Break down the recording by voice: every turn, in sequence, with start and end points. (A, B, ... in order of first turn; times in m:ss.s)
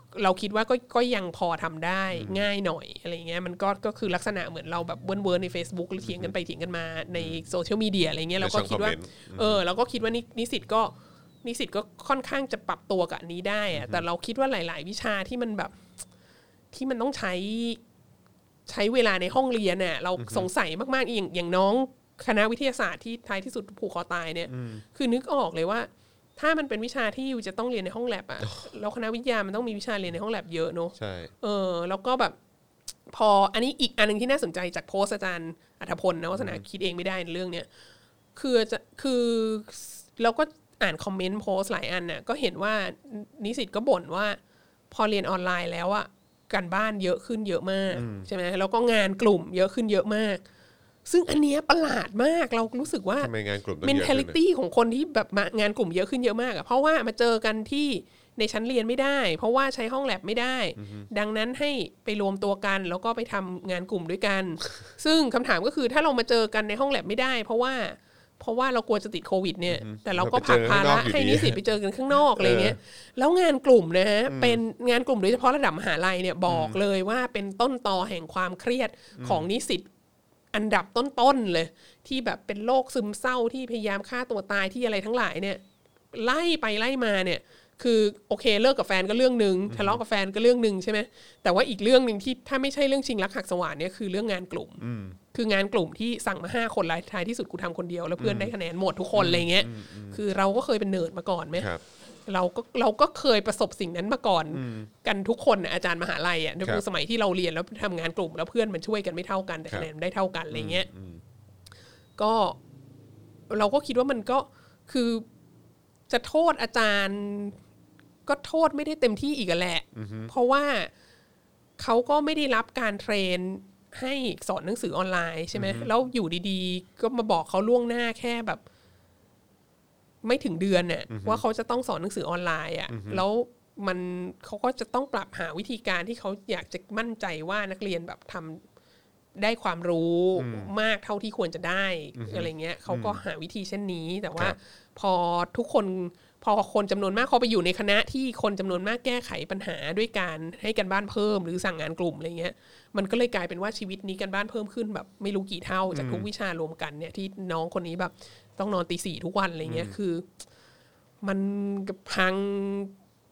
0:00.1-0:10.9 A
0:02.1-0:02.4 B
0:06.0-0:06.3 B
0:07.2-0:07.4 B
0:08.4-0:09.6 B
0:11.4-0:15.8 A
0:13.7-0:14.0 B
0:16.7-0:17.8 A
0:18.7-0:32.4 A
0:20.2-0:20.5 B
0:24.5-0:24.8 B
0:31.0-0:31.3 B
0:33.1-0:37.7 A
0:36.4-0:36.6 B
0:38.4-0:44.4 A
0:44.9-0:50.4 A
0:47.9-0:48.3 B
0:51.1-0:53.3 A
0:53.2-0:54.4 B
0:53.8-1:19.9 A
1:00.8-1:01.1 B
1:09.7-1:11.6 B
1:12.3-1:12.8 B
1:14.3-1:14.6 B
1:16.5-1:16.8 B
1:19.2-1:19.5 B
1:20.5-1:25.6 A
1:26.1-1:34.8 A
1:29.7-1:30.0 B
1:34.8-1:35.2 B
1:35.3-1:41.7 A
1:38.2-1:38.5 B
1:39.2-1:40.2 B
1:41.6-1:41.8 B
1:42.3-1:50.9 A
1:44.5-1:44.9 B
1:50.5-1:51.2 B
1:52.2-1:52.6 A
1:53.5-1:55.2 A
1:56.1-1:57.6 A
1:58.3-2:00.9 A
1:59.9-2:00.3 B
2:01.8-2:08.6 A
2:05.5-2:05.9 B
2:10.2-2:18.6 A
2:11.1-2:11.4 B
2:12.9-2:13.2 B
2:19.4-2:40.3 A
2:20.4-2:20.7 B
2:22.2-2:23.2 B
2:35.9-2:36.3 B
2:39.6-2:40.0 B
2:41.2-2:42.9 A